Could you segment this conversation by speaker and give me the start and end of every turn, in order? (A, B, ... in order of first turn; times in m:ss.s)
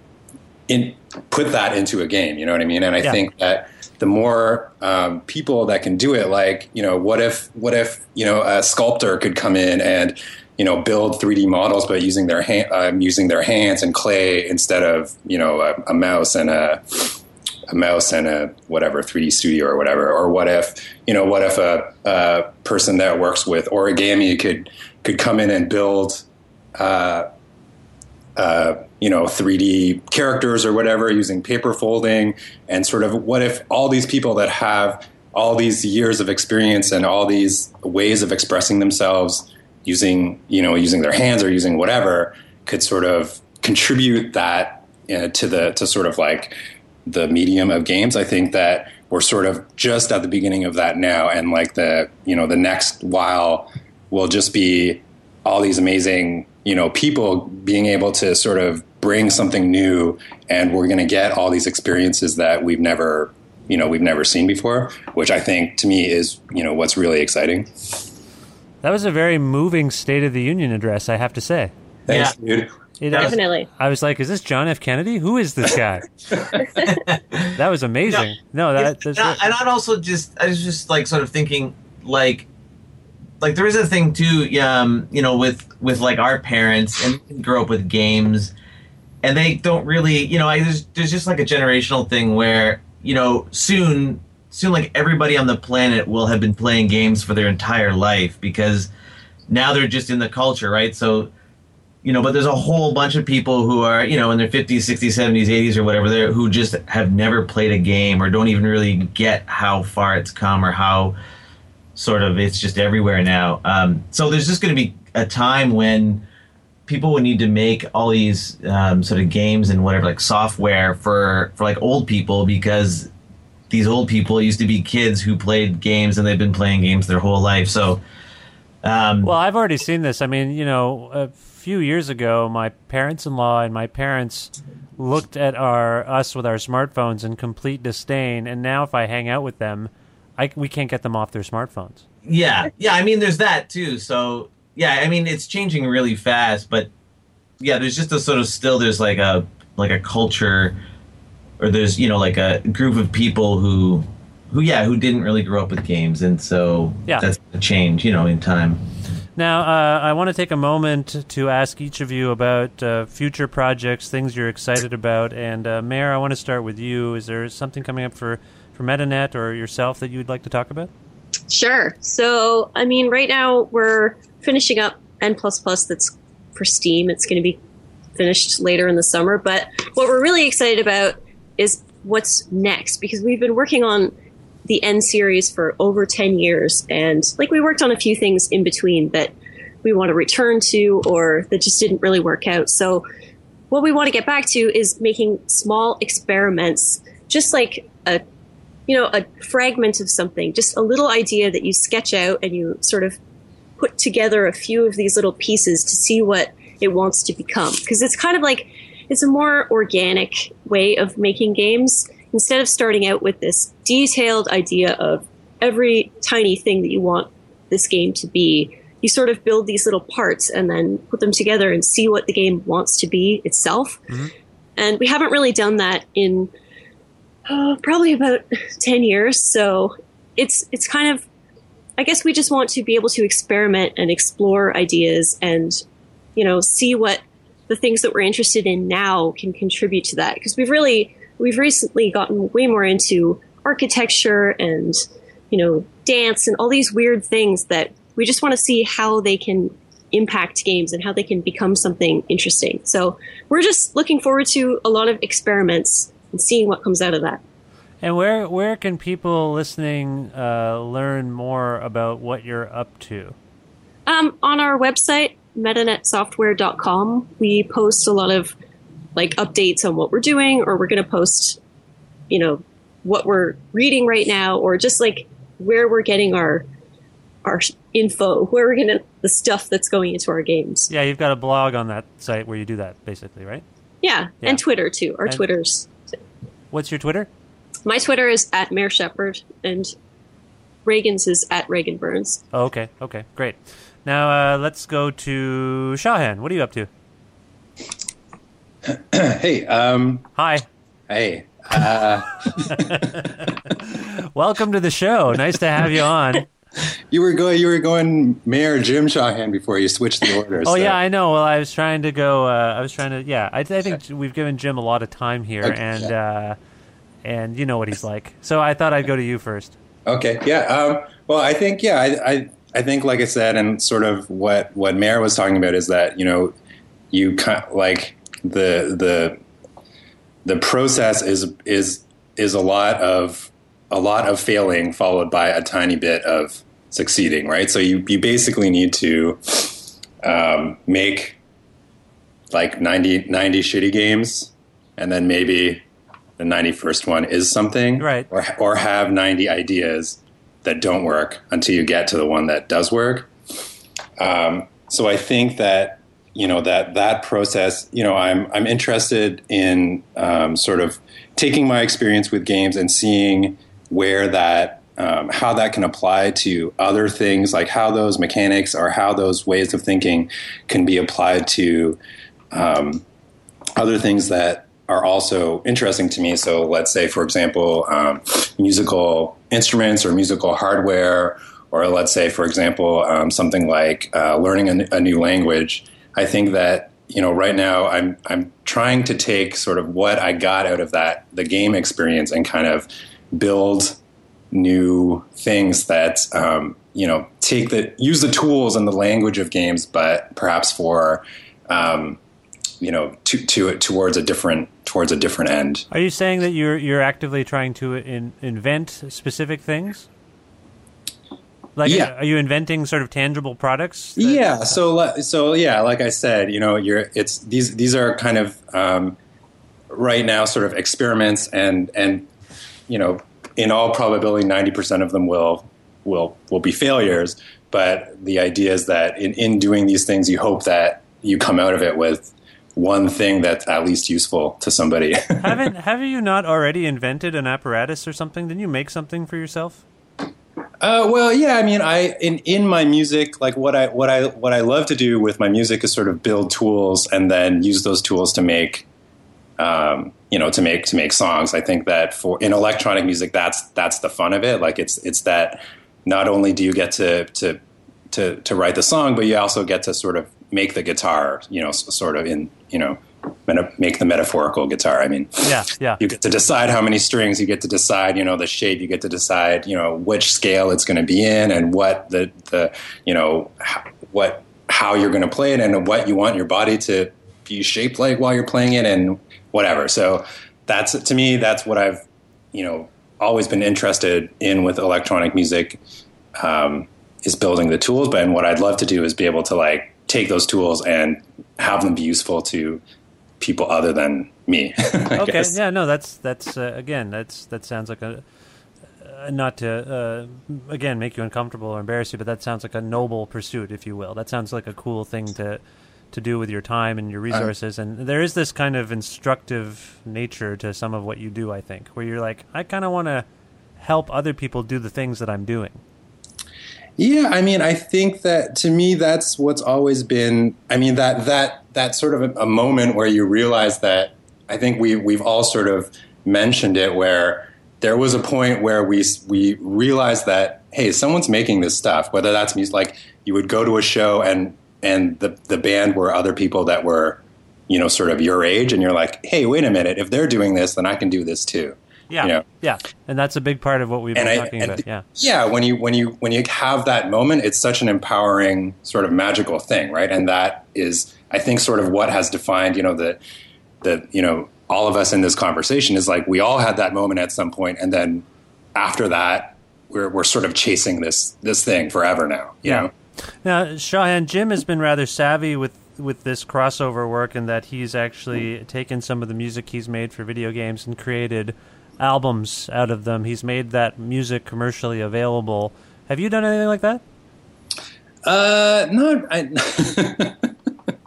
0:00.7-0:26.2 A
0:26.8-0:27.2 A
0:28.4-1:07.7 A
1:08.8-1:11.7 B
1:12.1-1:12.7 A
1:12.1-1:12.3 C
1:13.0-1:16.1 B
1:13.2-1:13.7 D
1:16.8-1:17.5 C
1:17.5-1:19.4 B
1:18.8-1:22.4 C
1:23.4-1:28.5 C
1:29.2-1:38.9 C
1:39.5-1:41.3 C
1:42.0-1:51.2 C
1:52.0-1:56.2 C
1:56.9-2:03.1 C
2:03.7-2:08.0 C
2:08.8-2:09.3 C
2:09.2-2:22.0 B
2:22.2-2:26.9 C
2:27.6-2:30.8 C
2:31.6-2:38.8 C
2:39.4-2:50.9 B
2:51.5-2:57.6 D
2:58.2-3:04.1 D
3:04.7-3:09.3 D
3:09.8-3:13.0 D
3:13.7-3:18.2 D
3:18.9-3:23.2 D
3:23.8-3:44.0 D
3:44.8-3:46.5 D
3:47.5-3:51.2 D
3:52.0-3:55.8 D
3:56.4-4:05.0 D
4:05.5-4:17.4 D
4:18.0-4:23.4 B
4:24.1-4:28.5 D
4:29.2-4:31.6 D
4:32.3-4:36.7 D
4:37.4-4:40.9 D
4:40.9-4:43.6 B
4:44.0-4:45.9 D
4:46.7-4:47.3 B
4:47.8-4:49.9 D
4:50.8-4:52.4 D
4:52.5-4:56.9 B
4:58.8-5:00.3 A
5:00.4-5:00.6 B
5:01.1-5:03.1 A
5:02.6-5:06.4 B
5:07.1-5:11.0 A
5:10.6-5:16.6 B
5:15.6-5:16.1 A
5:17.2-5:19.8 B
5:20.0-5:26.5 A
5:27.1-5:29.4 A
5:30.4-5:41.4 A
5:42.5-5:45.8 A
5:46.4-5:53.3 A
5:48.0-5:48.3 B
5:54.2-6:12.0 A
6:12.5-6:13.0 A
6:13.8-6:34.0 A
6:34.5-6:42.2 A
6:42.8-6:45.8 A
6:45.9-6:50.1 B
6:51.8-6:54.5 B
6:51.8-6:52.1 A
6:54.2-6:59.2 A
6:59.9-7:02.3 A
7:02.9-7:15.6 A
7:15.4-7:19.8 B
7:20.8-7:28.8 A
7:29.6-7:37.6 A
7:38.1-8:05.8 A
7:45.4-7:46.0 B
8:06.4-8:12.8 A
8:13.4-8:15.5 A
8:15.2-8:18.2 B
8:19.0-8:33.2 B
8:33.8-8:35.8 B
8:37.0-9:02.4 A
9:02.1-9:05.1 B
9:04.1-9:13.2 A
9:13.8-9:22.9 A
9:23.4-9:37.0 B
9:38.2-9:40.5 A